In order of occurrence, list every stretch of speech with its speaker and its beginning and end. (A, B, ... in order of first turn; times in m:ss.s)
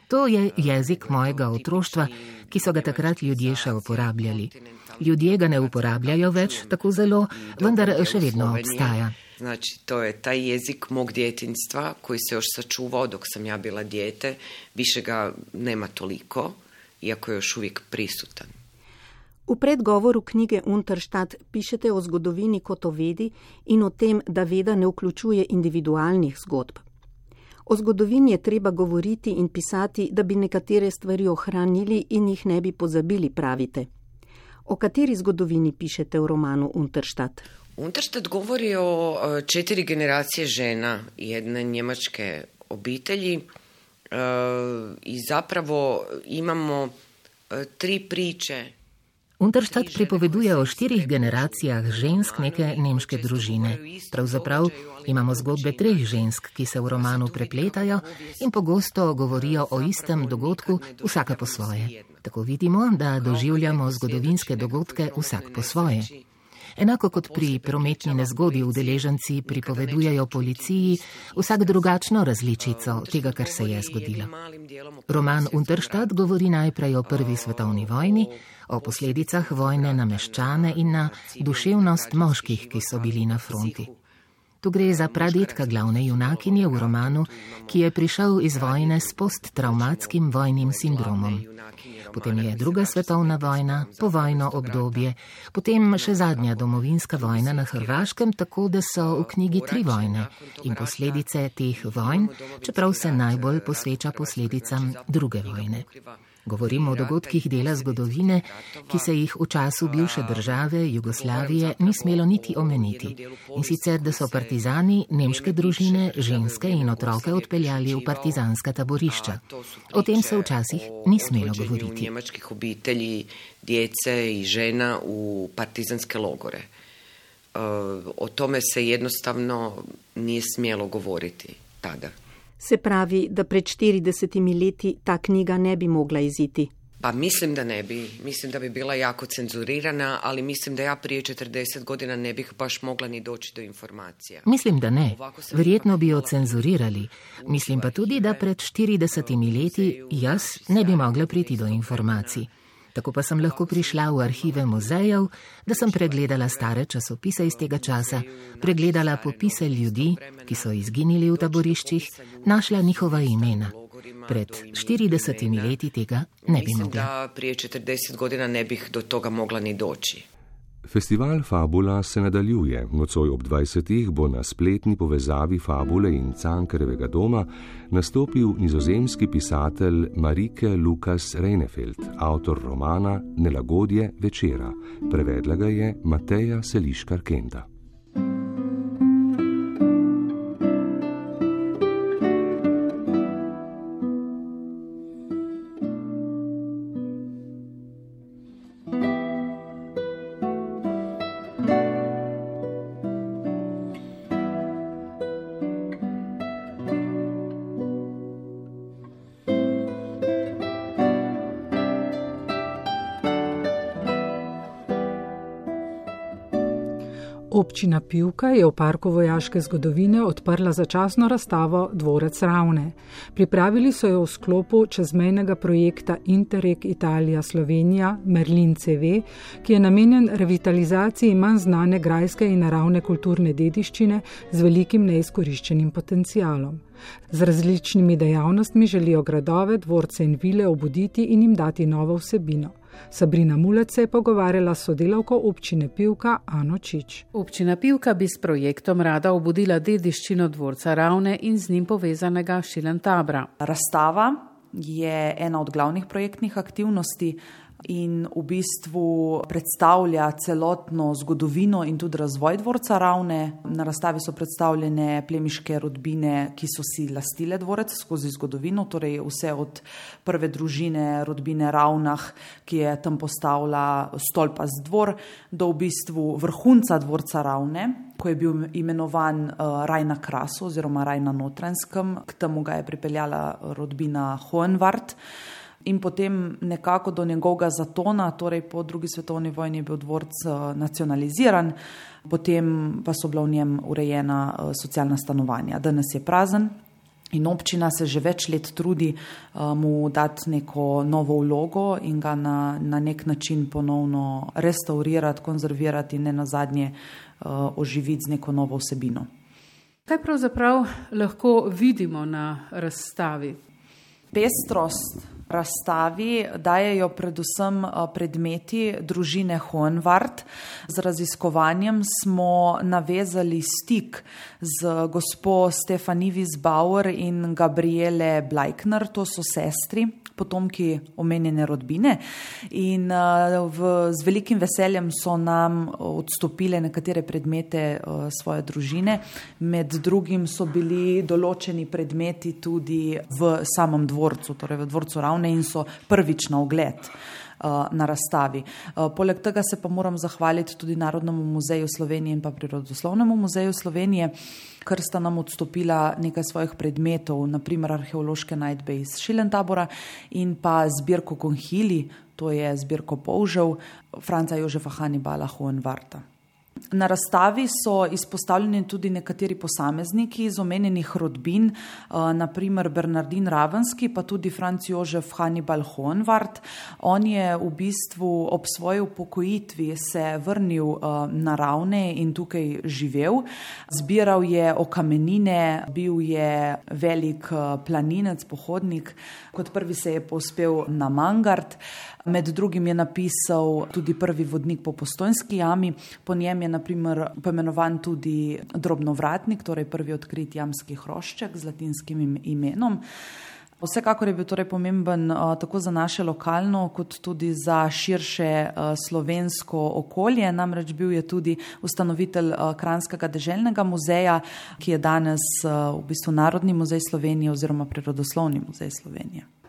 0:00.1-0:09.2 A
0:00.5-0:18.5 B
0:19.5-0:26.8 C
0:27.7-0:33.9 C
0:34.7-0:37.5 C
0:37.8-0:43.5 B
0:44.1-0:47.0 B
0:47.5-0:48.7 B
0:49.4-1:06.1 A
0:49.6-0:56.3 B
0:56.9-1:02.2 B
1:03.2-1:06.3 B
1:06.8-1:14.3 A
1:07.2-1:12.0 B
1:12.6-1:16.5 B
1:15.1-1:23.9 A
1:17.0-1:24.0 B
1:24.6-1:31.4 A
1:24.8-1:27.9 B
1:28.5-1:35.1 B
1:32.1-1:45.9 A
1:35.9-1:38.2 B
1:38.9-1:49.1 B
1:46.4-2:02.1 A
1:49.8-1:58.4 B
1:59.1-2:06.7 B
2:07.6-2:12.2 B
2:12.6-2:16.7 C
2:17.0-2:24.5 B
2:24.4-2:43.7 A
2:25.1-2:28.5 B
2:29.1-2:32.5 B
2:33.4-2:36.8 B
2:37.3-2:45.8 B
2:44.3-2:47.1 A
2:46.5-2:50.3 B
2:50.8-3:07.7 D
3:37.5-4:07.3 E
4:07.3-4:13.5 F
4:13.6-4:45.2 G
4:45.8-4:56.8 G
4:57.3-5:09.3 G
5:10.1-5:13.6 F
5:14.3-5:54.3 G
5:54.8-6:06.2 G
6:06.9-6:43.0 G
6:43.8-6:59.5 G